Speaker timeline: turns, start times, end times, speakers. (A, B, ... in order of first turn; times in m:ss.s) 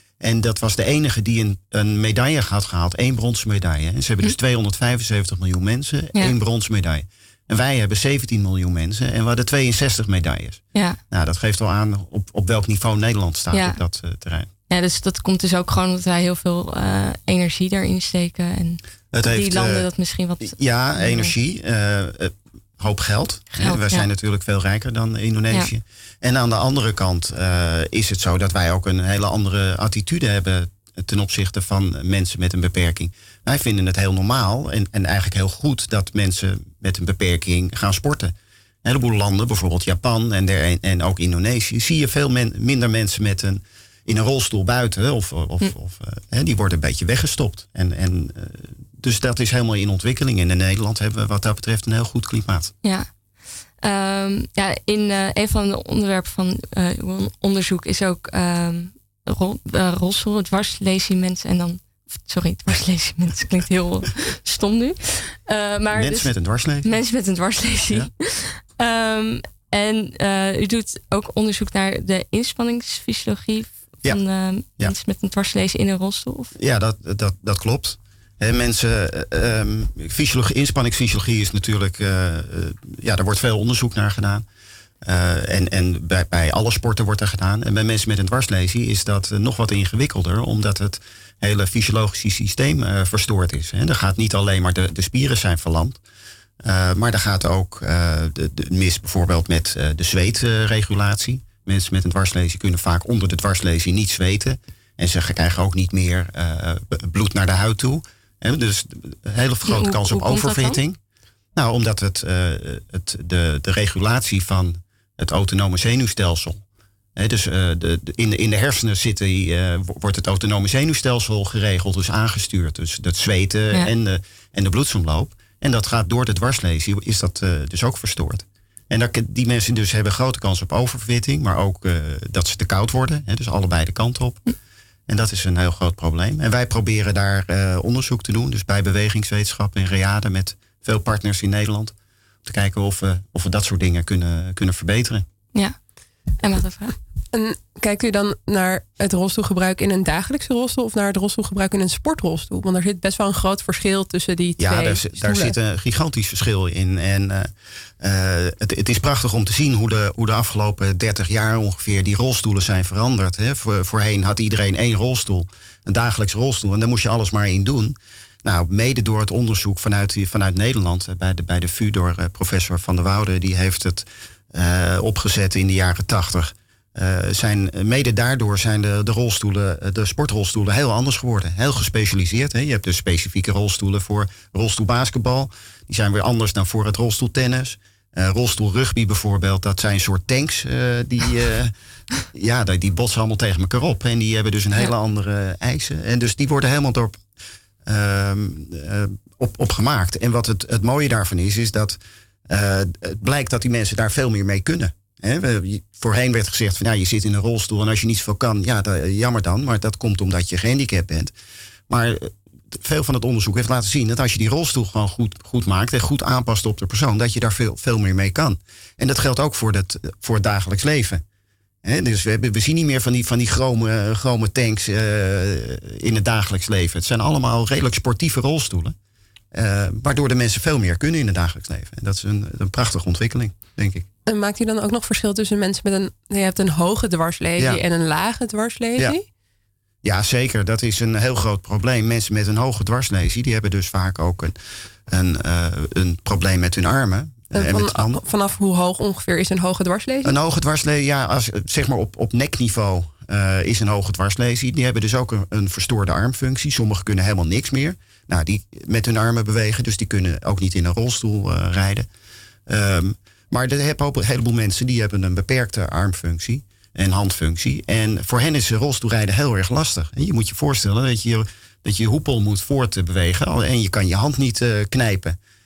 0:00.2-0:14.5 A
0:10.7-0:11.0 B
0:13.5-0:13.8 B
0:14.7-0:21.3 B
0:19.1-0:19.9 A
0:20.4-0:52.7 A
0:23.6-0:24.1 B
0:53.8-1:06.3 B
1:05.9-1:06.9 A
1:06.8-1:16.5 B
1:16.6-1:24.4 A
1:25.0-1:36.0 A
1:36.6-1:51.0 A
1:49.6-1:50.8 B
1:51.5-1:56.6 A
1:57.2-2:14.5 A
2:15.1-2:21.9 A
2:22.4-2:25.2 A
2:26.4-2:26.9 B
2:27.3-2:35.5 C
2:34.6-3:11.7 A
3:12.2-3:17.2 A
3:17.8-3:22.0 A
3:22.5-3:31.3 A
3:31.9-3:41.2 A
3:41.8-3:48.9 A
3:49.5-3:54.0 A
3:54.2-3:59.2 C
4:00.0-4:04.6 A
4:05.1-4:08.2 A
4:07.5-4:10.3 C
4:10.2-4:22.1 A
4:22.7-4:35.4 A